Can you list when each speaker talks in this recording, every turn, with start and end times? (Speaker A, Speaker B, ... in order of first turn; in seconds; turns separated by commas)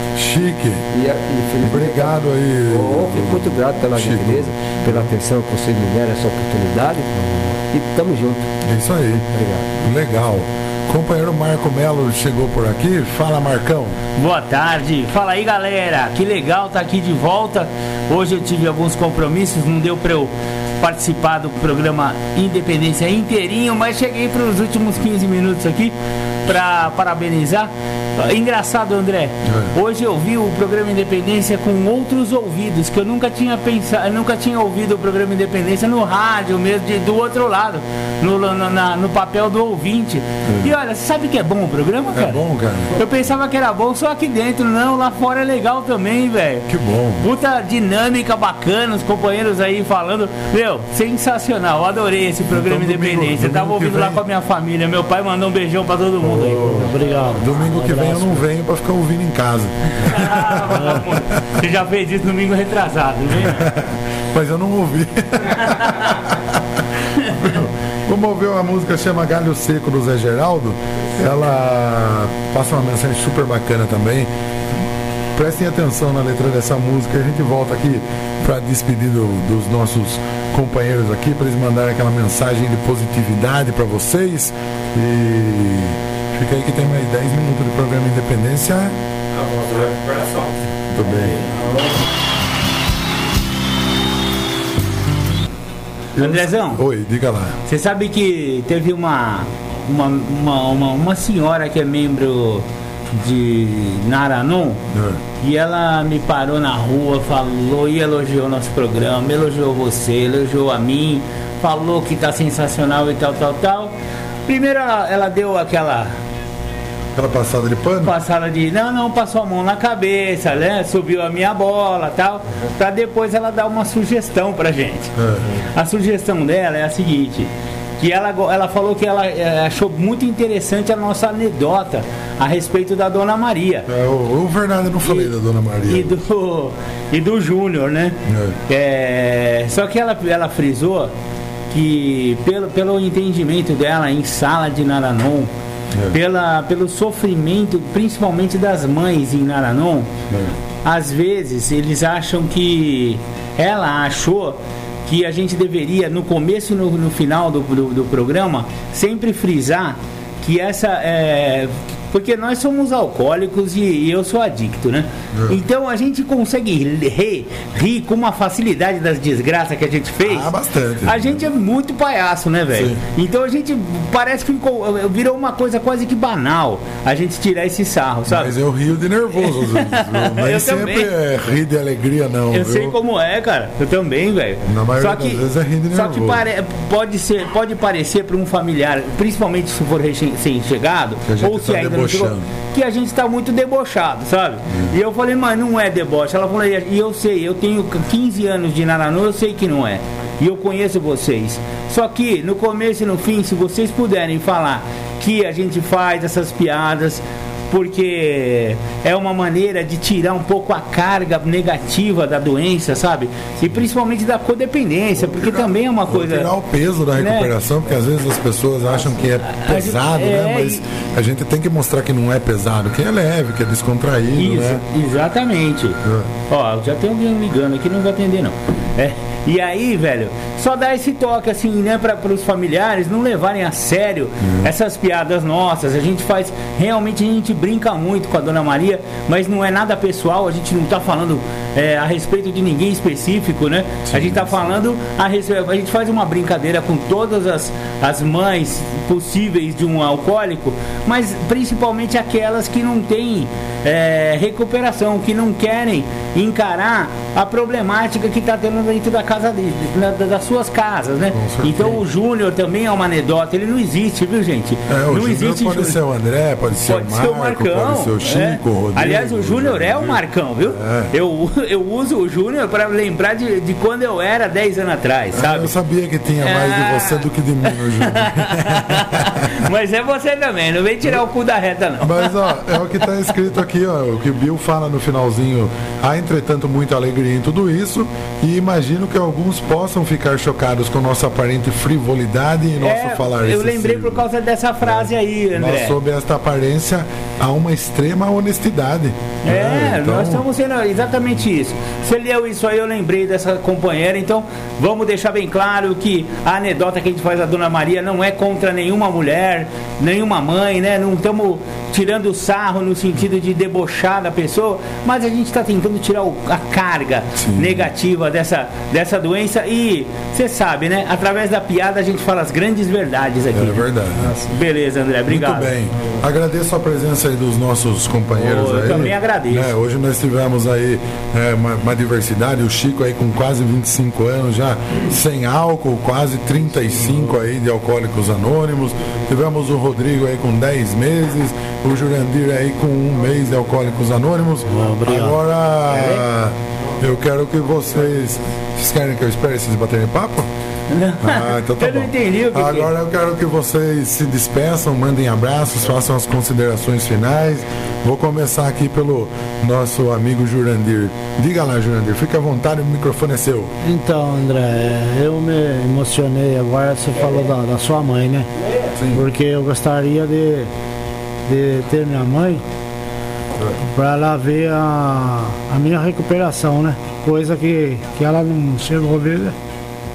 Speaker A: 0.1-0.8, Speaker B: 0.9-2.2, Speaker A: 1.6-5.1, Speaker B: 2.7-7.1, Speaker A: 7.2-7.5, Speaker B: 7.7-8.5, Speaker A: 8.6-14.0, Speaker B: 9.3-9.7, Speaker C: 14.2-42.4, Speaker A: 29.4-29.7, Speaker A: 40.5-40.7, Speaker A: 42.1-42.9, Speaker C: 42.9-46.7, Speaker A: 46.7-47.3, Speaker C: 47.2-56.8, Speaker A: 52.5-54.2, Speaker A: 56.2-61.4, Speaker D: 56.6-58.4, Speaker C: 60.0-63.6, Speaker A: 63.5-74.3, Speaker C: 65.7-66.1, Speaker A: 75.3-89.0, Speaker E: 89.3-92.0, Speaker A: 90.9-91.3, Speaker A: 96.2-97.6, Speaker C: 96.2-96.8, Speaker C: 97.7-104.8, Speaker A: 104.9-105.2, Speaker C: 105.4-116.1, Speaker A: 117.1-118.1, Speaker C: 118.0-133.9, Speaker A: 125.2-125.5, Speaker A: 133.9-136.2, Speaker C: 135.0-135.3, Speaker C: 135.9-141.1, Speaker A: 138.2-138.6, Speaker C: 141.7-145.5, Speaker A: 145.9-146.2, Speaker C: 146.1-150.1, Speaker A: 150.3-150.5, Speaker C: 150.8-178.5, Speaker A: 165.3-165.6, Speaker A: 170.2-171.4, Speaker A: 172.7-173.0, Speaker A: 178.3-182.9, Speaker C: 179.4-181.1, Speaker C: 182.5-216.5, Speaker A: 184.6-186.4, Speaker A: 191.2-192.5, Speaker A: 215.2-224.8, Speaker C: 217.2-217.5, Speaker C: 219.4-220.8, Speaker C: 224.3-266.0, Speaker A: 226.0-226.3, Speaker A: 234.4-234.7, Speaker A: 244.1-244.8, Speaker A: 261.3-262.0, Speaker A: 264.9-271.1, Speaker C: 266.8-275.7, Speaker A: 275.3-279.6, Speaker C: 276.4-283.0, Speaker A: 282.0-294.2, Speaker C: 292.8-296.0, Speaker A: 294.8-300.5, Speaker C: 299.4-323.9, Speaker A: 317.4-317.9, Speaker A: 323.5-324.4, Speaker C: 324.4-325.8, Speaker A: 325.3-350.5, Speaker C: 328.3-329.7, Speaker D: 344.7-345.4, Speaker C: 350.9-352.9, Speaker A: 351.2-363.7, Speaker D: 363.8-368.5, Speaker A: 368.9-369.2, Speaker D: 369.1-370.7, Speaker D: 371.5-372.6, Speaker D: 373.8-379.6